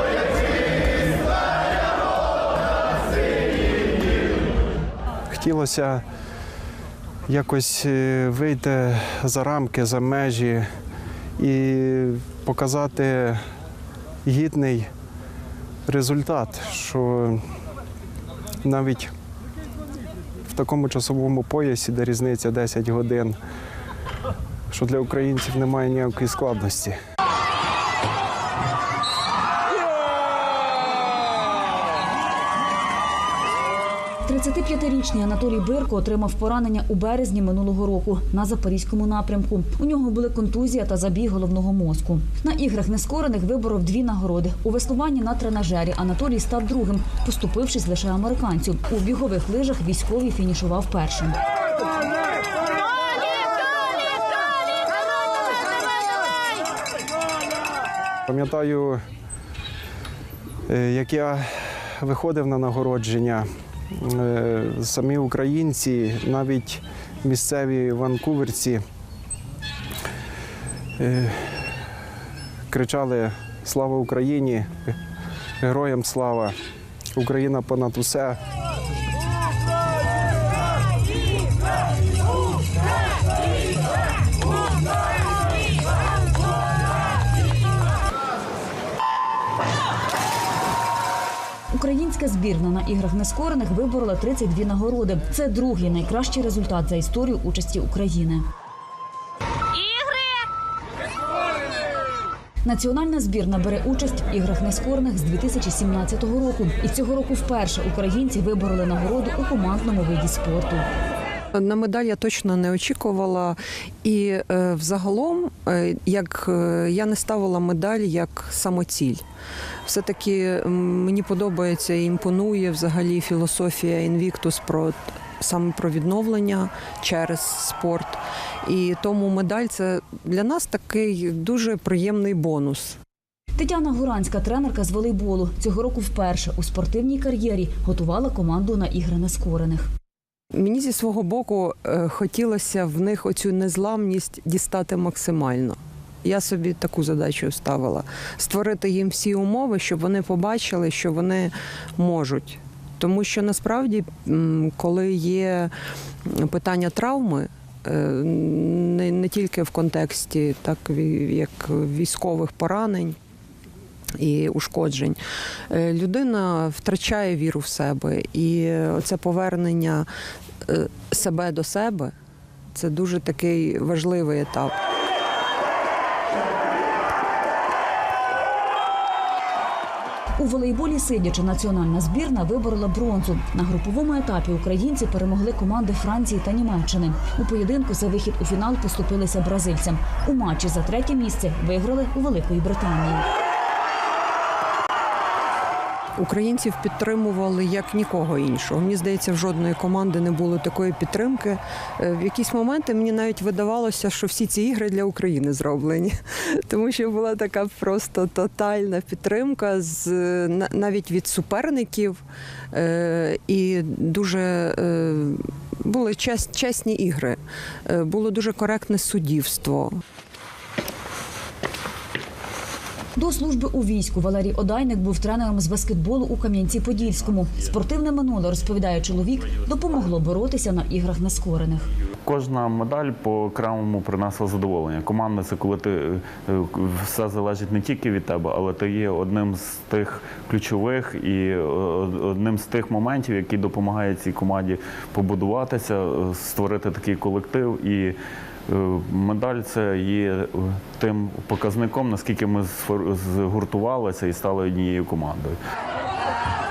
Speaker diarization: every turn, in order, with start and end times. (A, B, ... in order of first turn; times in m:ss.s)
0:05.3-0:06.0 A
0:07.3-0:10.7 A
0:11.4-0:13.4 A
0:14.2-0:14.9 A
0:15.9-0:17.4 A
0:18.6-0:19.1 A
0:20.5-0:23.4 A
0:24.7-0:27.0 A
0:34.3-0:51.4 B
0:58.3-0:59.0 A
1:00.7-1:08.8 A
1:11.0-1:11.7 A
1:12.7-1:15.0 A
1:15.6-1:16.6 A
1:17.2-1:18.4 A
1:31.7-1:38.5 B
1:42.6-1:50.8 B
1:51.5-1:59.2 C
1:59.9-2:13.0 C
2:13.6-2:19.9 B
2:20.5-2:35.7 C
2:36.3-2:43.2 C
2:44.2-2:45.2 C
2:45.7-2:50.1 C
2:50.7-2:52.1 C
2:52.7-2:54.7 C
3:00.4-3:13.2 B
3:16.2-3:32.2 C
3:32.7-3:40.0 C
3:43.2-3:51.9 B
3:52.2-4:08.2 D
4:08.7-4:15.6 D